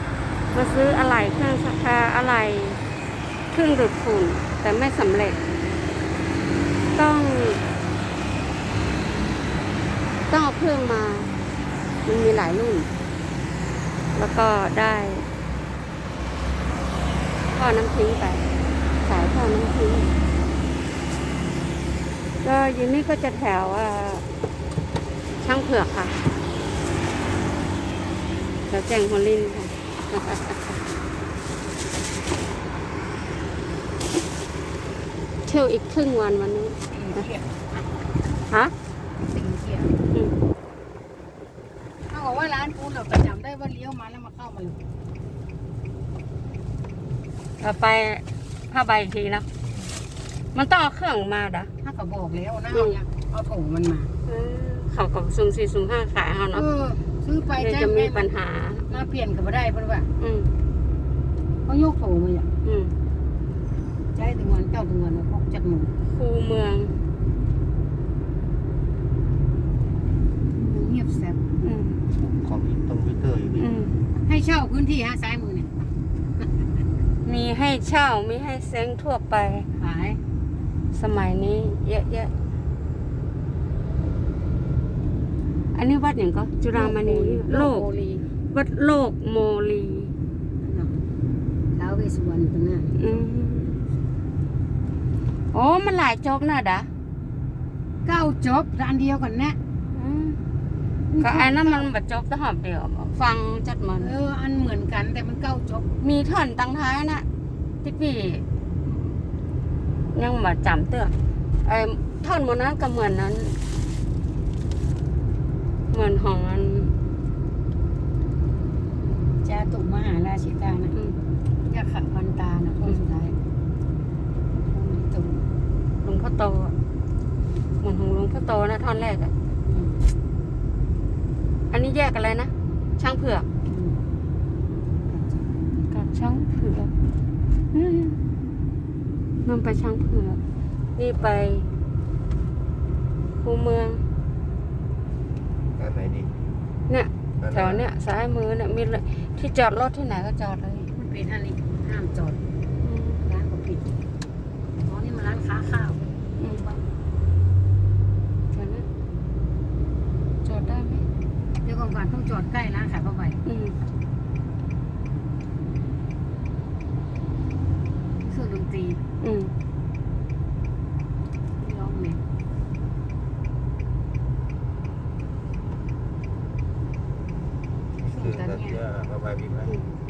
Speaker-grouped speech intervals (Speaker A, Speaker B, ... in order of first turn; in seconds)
Speaker A: 0.5-2.8, 3.5-5.4, 6.9-7.6, 10.3-11.3, 12.0-12.9, 14.1-15.3, 17.5-18.5, 19.0-20.1, 22.4-24.2, 25.4-26.2, 28.6-30.8, 35.4-36.8, 47.6-49.5, 50.5-51.7, 52.7-53.0, 54.2-56.6, 57.5-58.9, 60.2-60.5, 62.6-62.9, 66.1-66.9, 71.6-72.0, 73.6-74.0, 77.2-79.7, 80.9-82.3, 85.7-87.8, 88.5-90.1, 93.0-93.8, 95.5-96.9, 99.9-100.4, 101.2-104.1, 106.0-107.2, 107.8-108.4, 110.1-113.6, 115.9-116.9, 126.0-126.7, 127.8-129.3, 131.7-133.5, 135.9-136.9, 137.7-138.1, 139.4-140.4, 140.9-141.7, 143.3-144.0, 146.9-150.9, 152.8-153.2, 158.5-158.8, 160.4-161.0, 163.4-163.8, 169.2-169.5
Speaker B: 36.9-37.9, 39.2-40.0, 42.1-44.8, 51.8-54.1, 56.5-58.3, 58.9-60.1, 61.6-62.5, 64.1-65.9, 70.5-71.4, 74.2-75.7, 79.8-80.2, 86.7-88.3, 90.6-90.9, 91.7-93.0, 98.0-99.6, 101.1-101.9, 104.0-105.9, 118.9-120.9, 121.6-123.3, 124.6-125.4, 129.7-130.0, 133.7-134.0, 135.1-135.7, 150.9-152.4, 153.2-153.9, 154.8-156.8, 161.6-163.4, 168.2-169.0, 171.6-172.2, 178.1-178.8
Speaker C: 49.6-49.9, 72.1-73.7, 145.8-146.3, 147.4-147.8, 178.0-179.8